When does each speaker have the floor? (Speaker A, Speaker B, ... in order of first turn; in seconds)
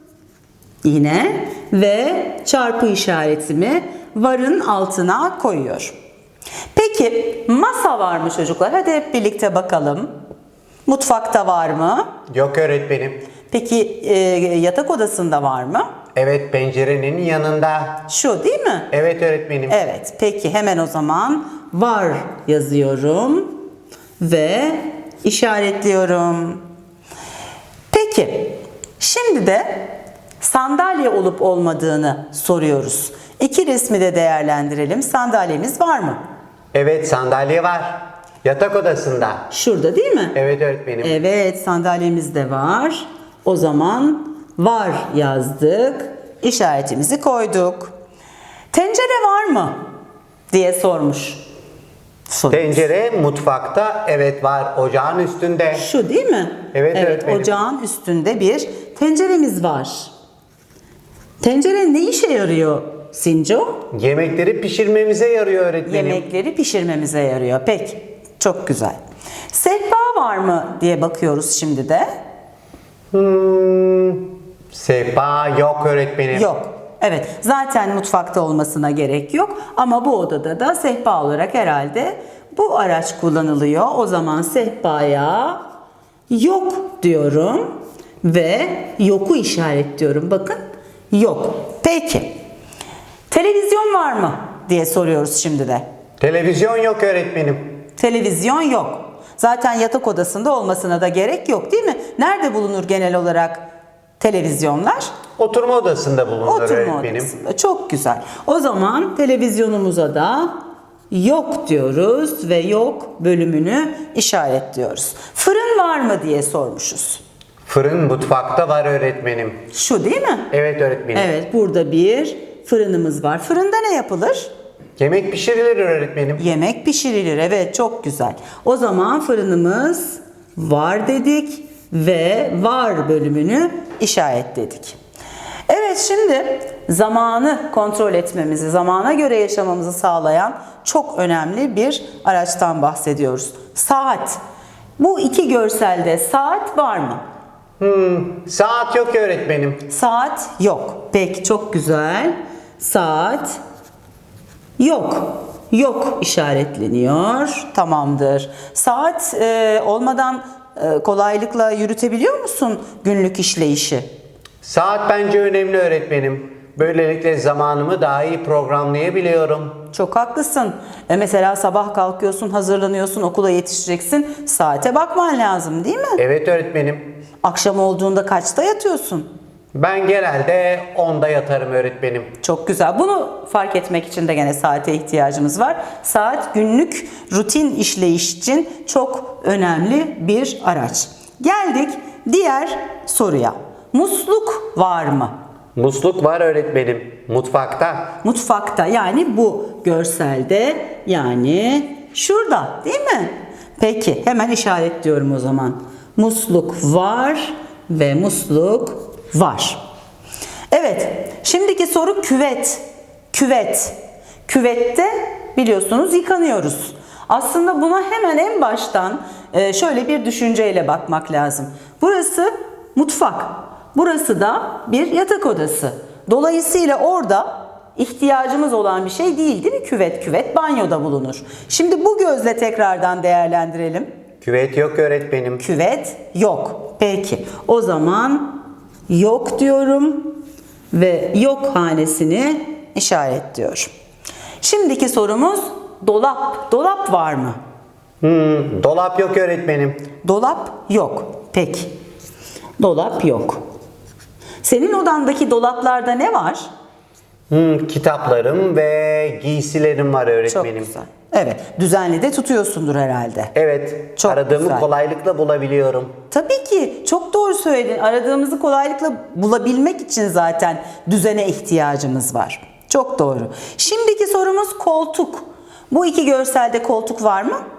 Speaker A: 0.8-6.0, 6.8-10.1, 10.9-12.1, 13.5-15.9, 18.1-18.9, 19.7-23.6, 24.2-26.6, 27.9-36.2, 39.5-40.4, 41.0-47.9, 48.7-49.9, 50.5-51.5, 52.3-52.9, 55.8-60.1, 61.4-63.9, 65.9-69.0, 69.5-72.1, 76.3-85.6, 86.3-90.6, 91.1-92.4, 93.3-95.8, 98.0-103.7, 104.2-105.2, 106.4-110.6, 111.1-117.2, 119.7-120.5, 121.1-124.5, 126.4-135.0, 135.7-144.4, 145.0-147.2, 149.9-153.6, 154.8-164.1, 169.9-176.2, 177.4-179.3, 182.4-195.3, 198.2-209.8, 210.7-234.1, 235.6-240.4, 240.9-243.9, 244.6-247.6, 250.2-251.9, 252.8-253.6, 254.6-256.7, 260.5-263.5, 264.2-264.9, 266.3-277.6
Speaker B: 12.3-13.2, 16.1-18.0, 18.9-19.8, 36.7-39.5, 40.4-41.1, 52.5-55.9, 56.7-57.6, 63.9-66.2, 73.1-76.5, 96.2-97.8, 105.4-107.3, 117.7-119.6, 120.5-121.3, 125.0-126.4, 147.8-149.8, 164.6-169.8, 176.2-177.2, 179.7-182.3, 195.8-198.1, 234.4-235.6, 248.2-250.0, 257.5-260.9, 263.6-266.1